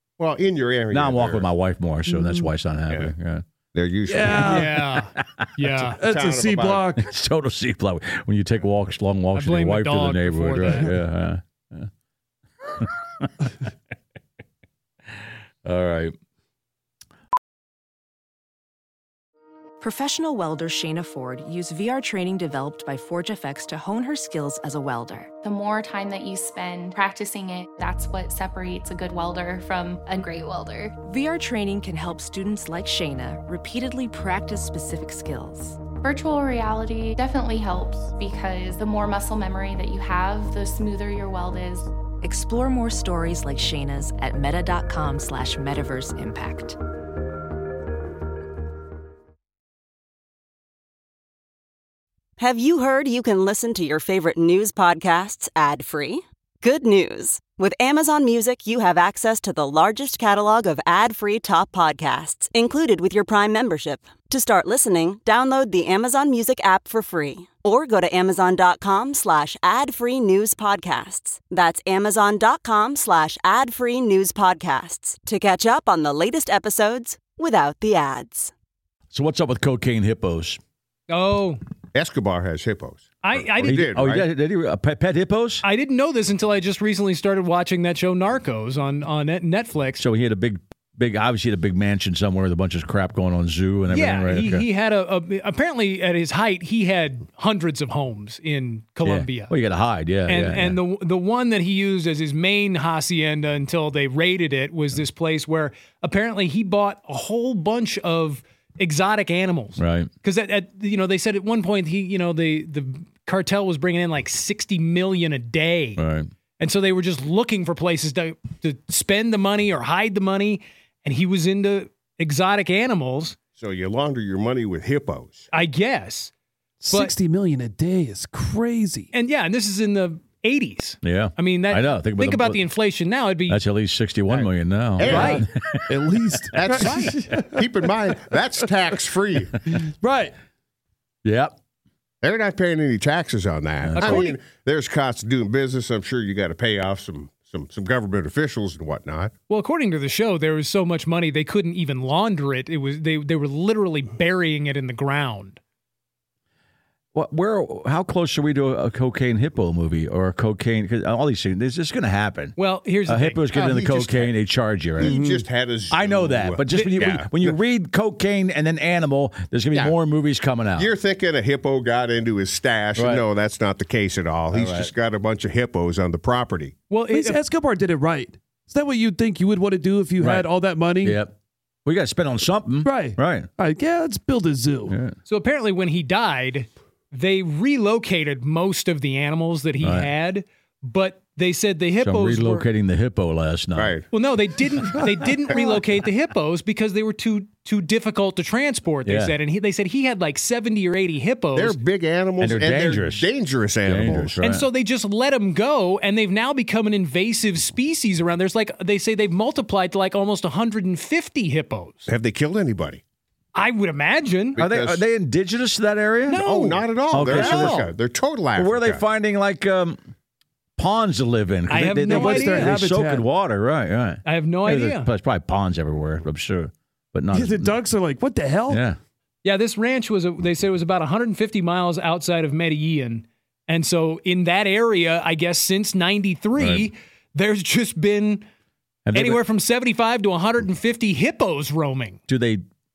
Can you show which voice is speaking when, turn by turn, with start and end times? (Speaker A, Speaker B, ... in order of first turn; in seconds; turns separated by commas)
Speaker A: 0.2-1.5, Speaker B: 0.9-3.4, Speaker C: 2.1-2.4, Speaker A: 3.7-4.7, Speaker C: 4.1-4.8, Speaker D: 4.4-6.0, Speaker B: 5.1-5.5, Speaker C: 6.0-7.1, Speaker A: 6.0-6.9, Speaker B: 7.0-11.9, Speaker D: 9.3-10.9, Speaker B: 12.6-13.3, Speaker B: 15.6-16.1, Speaker E: 19.8-25.3, Speaker F: 25.4-30.9, Speaker E: 31.0-35.8, Speaker F: 35.9-41.9, Speaker E: 42.2-46.8, Speaker G: 52.4-78.5, Speaker B: 79.1-80.6, Speaker D: 81.1-81.6, Speaker A: 81.9-84.3, Speaker D: 83.2-83.9, Speaker B: 83.6-85.6, Speaker D: 85.6-90.0, Speaker B: 90.0-94.6, Speaker D: 93.9-99.5, Speaker B: 99.0-100.8, Speaker D: 100.3-116.0, Speaker B: 109.8-110.1, Speaker B: 116.0-116.3, Speaker D: 116.6-123.3, Speaker A: 123.6-125.5, Speaker D: 125.5-126.3, Speaker C: 126.8-129.1, Speaker D: 129.1-133.6, Speaker B: 131.0-132.6, Speaker B: 133.5-135.9, Speaker A: 135.0-135.4, Speaker D: 135.0-135.4, Speaker C: 135.1-135.4, Speaker C: 135.9-137.7, Speaker A: 136.5-139.5, Speaker C: 139.7-140.3, Speaker B: 141.2-141.6, Speaker A: 142.2-149.3, Speaker B: 143.8-144.3, Speaker D: 143.9-144.4, Speaker D: 149.5-155.6, Speaker B: 157.1-165.2, Speaker D: 162.6-163.8, Speaker A: 163.5-164.3, Speaker A: 165.0-167.6, Speaker C: 165.0-165.4, Speaker B: 165.9-170.9, Speaker D: 166.7-167.0, Speaker A: 170.8-176.7, Speaker B: 172.9-173.2, Speaker B: 174.5-174.9, Speaker D: 176.9-177.4, Speaker C: 177.1-181.2, Speaker B: 180.2-180.5, Speaker B: 181.0-181.3, Speaker B: 181.8-183.5, Speaker C: 182.8-185.0, Speaker B: 184.9-185.2, Speaker D: 185.2-192.7, Speaker B: 189.8-190.1, Speaker B: 192.0-194.0, Speaker A: 193.8-194.1, Speaker D: 194.1-201.8, Speaker B: 199.0-199.3, Speaker A: 201.5-204.4, Speaker B: 202.4-203.3, Speaker B: 203.8-204.7, Speaker D: 204.4-212.1, Speaker A: 212.1-213.0, Speaker D: 213.5-214.6, Speaker A: 214.6-215.0, Speaker B: 214.6-216.4, Speaker D: 216.3-217.9, Speaker A: 216.3-219.0, Speaker B: 217.1-217.9, Speaker B: 218.6-220.0, Speaker B: 220.8-227.8, Speaker D: 221.7-222.8, Speaker C: 222.1-223.2, Speaker D: 224.2-225.1, Speaker C: 227.3-228.8, Speaker B: 228.7-229.0, Speaker D: 229.4-238.4, Speaker B: 236.6-236.9, Speaker B: 239.1-239.4, Speaker D: 239.1-242.2, Speaker B: 242.3-242.6